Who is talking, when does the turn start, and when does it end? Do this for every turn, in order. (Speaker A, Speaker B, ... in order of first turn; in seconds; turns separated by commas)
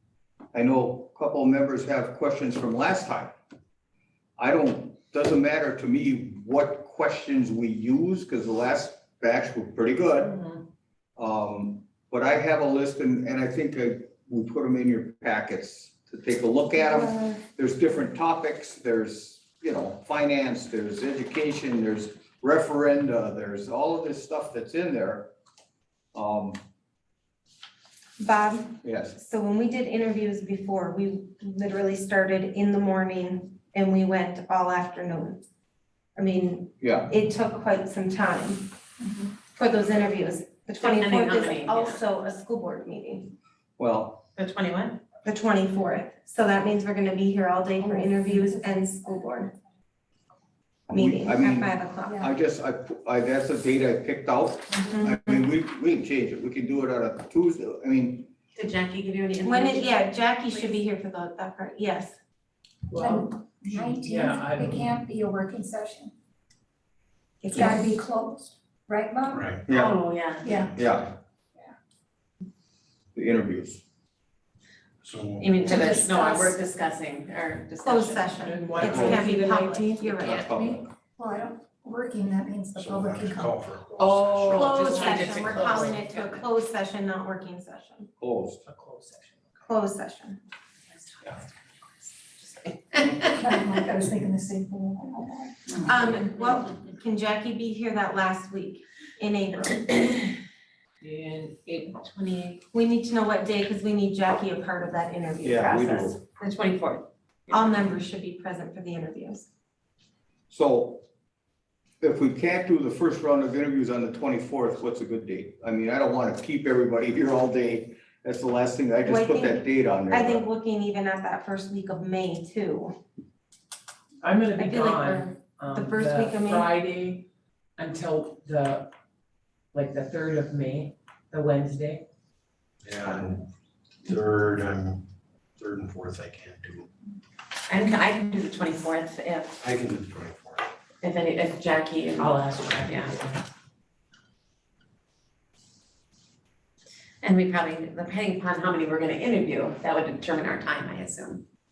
Speaker A: 0.5-3.4, Speaker A: 4.4-10.3, Speaker B: 10.2-10.6, Speaker A: 11.2-25.3, Speaker A: 26.1-26.6, Speaker C: 28.2-35.4, Speaker A: 28.8-29.1, Speaker C: 36.2-38.7, Speaker A: 36.8-37.1, Speaker D: 39.0-39.3, Speaker C: 39.5-43.3, Speaker E: 40.8-42.0, Speaker A: 43.8-44.2, Speaker E: 44.4-45.0, Speaker C: 45.2-49.5, Speaker D: 47.8-49.2, Speaker A: 50.9-58.3, Speaker C: 50.9-52.2, Speaker D: 52.0-52.3, Speaker E: 54.7-55.0, Speaker C: 54.9-55.4, Speaker E: 58.5-60.8, Speaker C: 59.4-62.1, Speaker B: 62.9-65.0, Speaker D: 62.9-66.1, Speaker C: 67.4-67.9, Speaker D: 67.5-69.5, Speaker F: 69.3-69.7, Speaker A: 69.7-71.1, Speaker E: 69.7-70.6, Speaker D: 70.4-70.7, Speaker A: 73.2-73.8, Speaker F: 75.0-75.9, Speaker E: 75.4-78.8, Speaker D: 75.7-76.6, Speaker C: 77.8-80.5, Speaker B: 78.4-80.1, Speaker A: 78.8-79.3, Speaker A: 80.2-80.9, Speaker D: 80.5-83.6, Speaker F: 82.8-84.9, Speaker B: 84.0-86.3, Speaker C: 84.5-88.1, Speaker E: 85.0-86.4, Speaker A: 88.2-88.6, Speaker B: 88.7-89.4, Speaker C: 89.7-90.4, Speaker D: 93.3-95.8, Speaker C: 95.8-100.3, Speaker B: 101.0-101.9, Speaker E: 101.9-102.6, Speaker C: 102.7-106.2, Speaker A: 105.4-106.2, Speaker E: 106.4-108.0, Speaker C: 107.5-109.5, Speaker A: 110.5-111.0, Speaker A: 112.0-120.4, Speaker C: 119.0-123.0, Speaker B: 124.2-128.9, Speaker C: 124.6-126.7, Speaker B: 129.7-132.1, Speaker F: 132.8-133.5, Speaker F: 134.0-135.1, Speaker F: 135.6-136.9, Speaker E: 137.7-139.6, Speaker F: 139.6-140.7, Speaker E: 141.0-143.2, Speaker B: 142.2-143.4, Speaker E: 147.2-151.4